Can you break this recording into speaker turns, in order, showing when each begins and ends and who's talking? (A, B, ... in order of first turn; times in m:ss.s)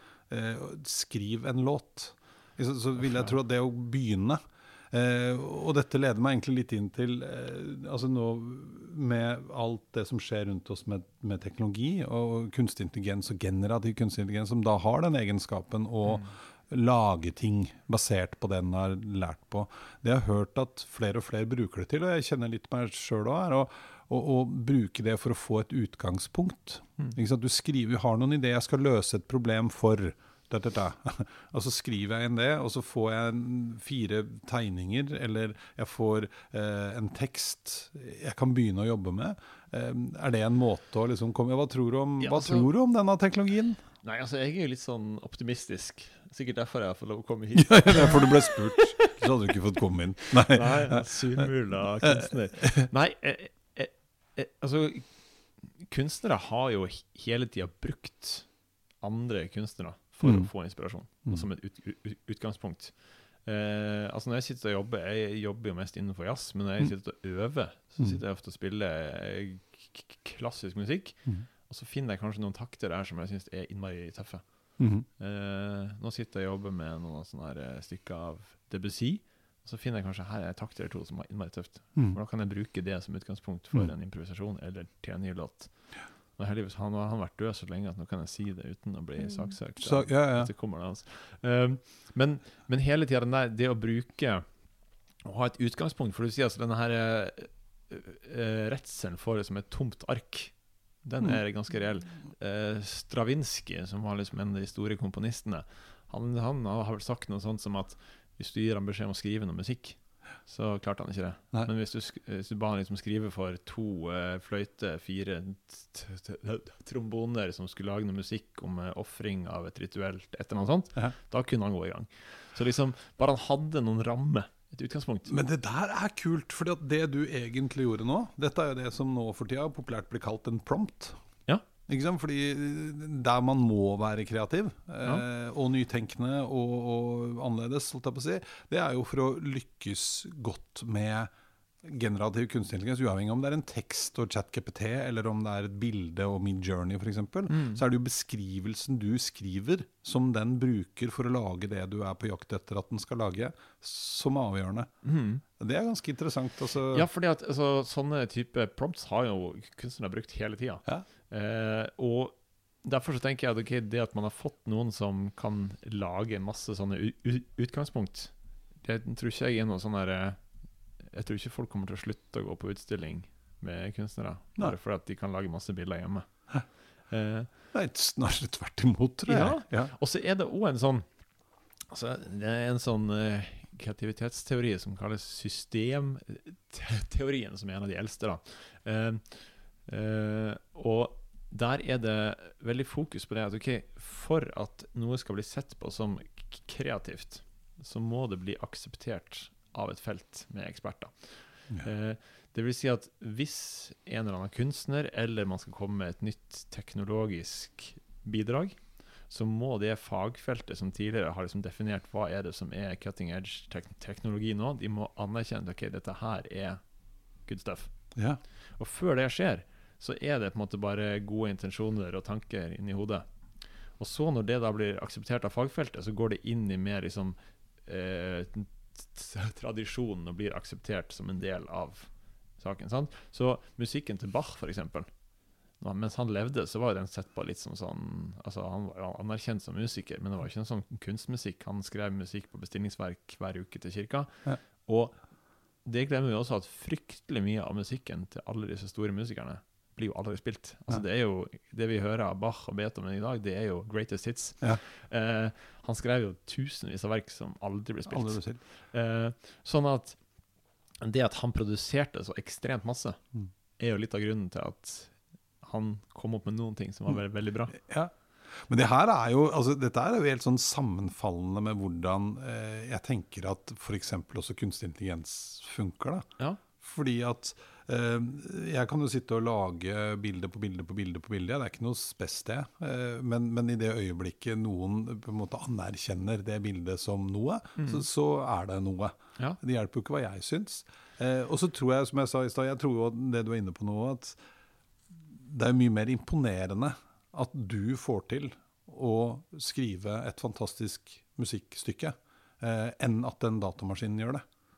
0:00.3-0:04.4 A
0:03.1-0:03.3 B
0:04.9-0:43.8 A
0:16.1-0:16.3 B
0:42.2-0:42.7 B
0:44.0-0:49.2 B
0:47.6-0:51.5 A
0:50.4-0:55.1 B
0:52.0-0:52.9 A
0:55.8-0:58.5 B
0:59.0-1:02.9 B
1:00.2-1:00.5 A
1:03.4-1:14.4 B
1:14.8-1:15.0 A
1:15.2-1:25.7 B
1:26.4-1:34.4 B
1:29.8-1:30.5 A
1:35.2-2:05.3 B
2:05.3-2:11.1 A
2:11.9-2:21.3 A
2:21.8-2:34.9 A
2:27.5-2:27.8 B
2:35.0-2:35.4 B
2:35.6-2:37.1 A
2:36.9-2:50.4 B
2:51.1-2:56.3 B
2:57.1-2:57.5 B
2:57.7-2:59.9 A
2:59.3-3:01.0 B
3:01.9-3:36.8 B
3:37.4-3:37.9 B
3:38.1-3:38.4 A
3:38.8-3:43.2 B
3:44.0-3:55.1 B
3:55.8-4:05.2 B
4:05.8-4:20.2 B
4:18.0-4:18.6 A
4:21.0-4:23.2 B
4:23.8-4:27.8 B
4:27.7-4:28.1 A
4:28.6-4:36.2 A
4:36.8-4:54.4 A
4:47.8-4:48.0 B
4:55.1-5:04.4 A